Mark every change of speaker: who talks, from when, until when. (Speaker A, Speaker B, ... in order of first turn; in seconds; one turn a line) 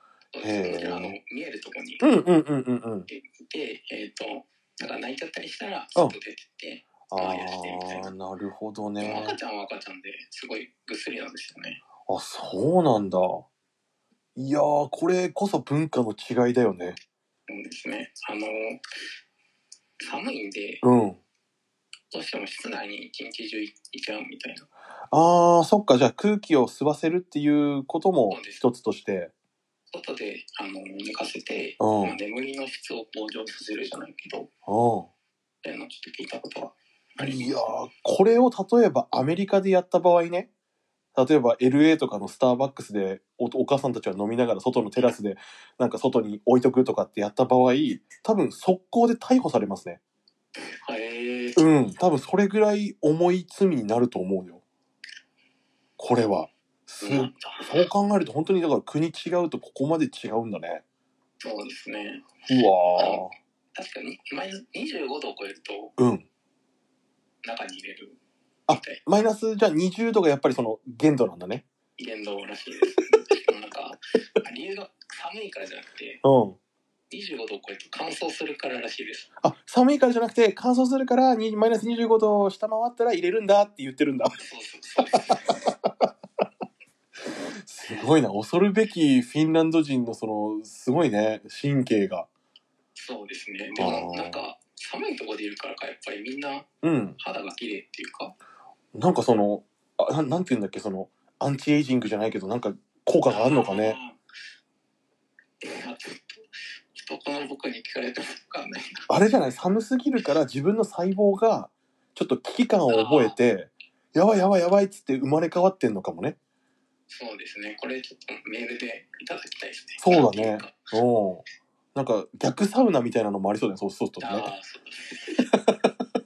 Speaker A: 0.3-2.1
Speaker B: 0.4-1.2
Speaker B: 2.0-3.1
Speaker A: 3.1-8.1
Speaker B: 7.1-9.4
Speaker A: 9.0-11.8
Speaker B: 12.1-13.4
Speaker B: 14.3-17.0
Speaker A: 17.5-18.8
Speaker A: 20.0-20.8
Speaker B: 20.8-21.2
Speaker A: 22.1-24.7
Speaker B: 25.1-29.3
Speaker A: 28.3-28.6
Speaker A: 29.9-34.5
Speaker B: 31.8-32.2
Speaker B: 34.6-35.1
Speaker A: 35.6-37.7
Speaker B: 37.2-40.5
Speaker B: 41.1-50.0
Speaker A: 50.5-51.6
Speaker B: 51.5-54.6
Speaker B: 56.0-60.8
Speaker A: 57.0-57.9
Speaker A: 61.4-63.2
Speaker B: 62.5-63.3
Speaker A: 63.7-65.9
Speaker B: 66.0-66.3
Speaker A: 67.4-68.2
Speaker B: 68.7-71.6
Speaker A: 68.7-69.0
Speaker A: 72.0-76.2
Speaker B: 76.2-76.6
Speaker A: 77.1-79.3
Speaker B: 79.4-84.4
Speaker A: 84.4-85.5
Speaker B: 85.5-86.1
Speaker B: 87.6-92.3
Speaker A: 92.9-96.7
Speaker B: 93.8-94.4
Speaker B: 96.8-97.2
Speaker A: 97.2-98.3
Speaker B: 98.9-104.0
Speaker A: 103.3-104.2
Speaker A: 105.6-109.0
Speaker B: 109.1-116.3
Speaker A: 112.9-113.3
Speaker A: 117.1-120.9
Speaker B: 120.0-121.4
Speaker B: 121.9-124.5
Speaker A: 124.2-125.5